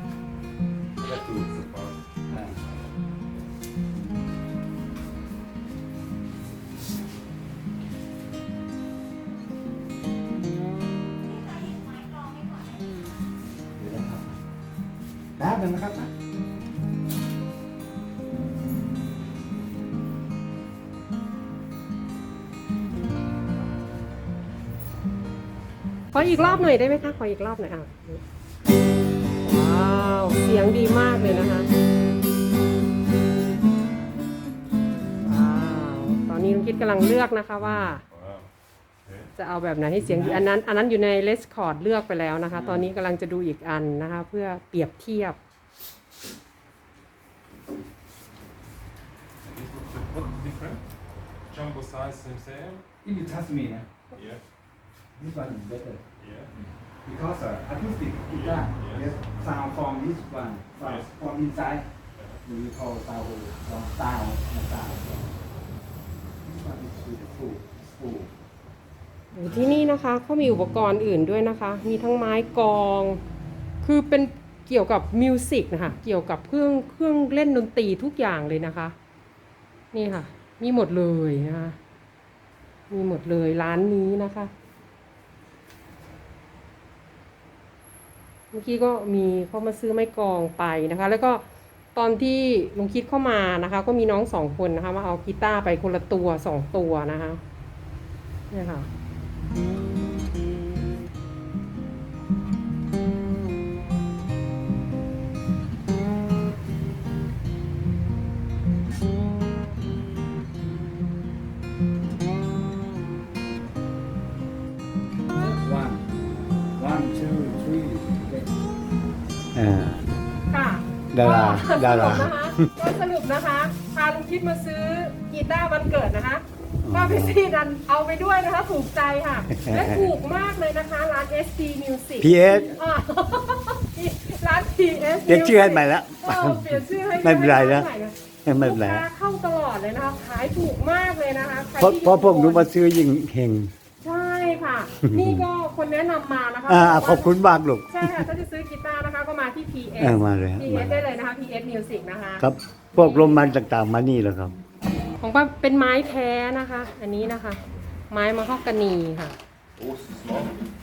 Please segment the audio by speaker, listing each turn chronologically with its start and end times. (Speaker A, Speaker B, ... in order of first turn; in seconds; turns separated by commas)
Speaker A: 1.0-2.9, Speaker B: 2.3-2.6, Speaker B: 13.8-14.4, Speaker B: 15.4-16.1, Speaker C: 26.1-28.2, Speaker A: 26.1-27.2, Speaker C: 29.4-31.7, Speaker C: 35.2-38.0, Speaker A: 37.9-38.5, Speaker A: 39.0-39.3, Speaker C: 39.4-45.4, Speaker B: 40.0-40.4, Speaker A: 42.5-42.8, Speaker A: 49.4-50.8, Speaker A: 51.5-52.8, Speaker B: 53.0-53.9, Speaker A: 54.1-54.4, Speaker B: 55.1-56.0, Speaker A: 56.2-56.5, Speaker B: 57.0-61.8, Speaker A: 58.3-59.2, Speaker A: 60.7-61.1, Speaker A: 62.1-62.4, Speaker B: 62.4-65.3, Speaker B: 66.4-68.3, Speaker C: 69.3-73.2, Speaker C: 73.8-78.9, Speaker C: 79.9-81.8, Speaker C: 82.9-84.5, Speaker C: 88.5-97.4, Speaker C: 98.5-98.9, Speaker B: 115.3-116.0, Speaker B: 116.8-118.5, Speaker D: 119.5-120.1, Speaker C: 120.5-142.7, Speaker D: 121.1-122.7, Speaker D: 126.8-127.4, Speaker D: 129.5-130.2, Speaker D: 132.2-132.8, Speaker D: 135.3-137.9, Speaker D: 138.4-139.1, Speaker D: 141.8-143.7, Speaker C: 144.0-147.3, Speaker D: 145.1-145.4, Speaker D: 146.7-148.3, Speaker C: 147.9-153.5, Speaker D: 150.0-151.0, Speaker D: 152.4-154.5, Speaker C: 155.2-159.3, Speaker A: 159.8-160.6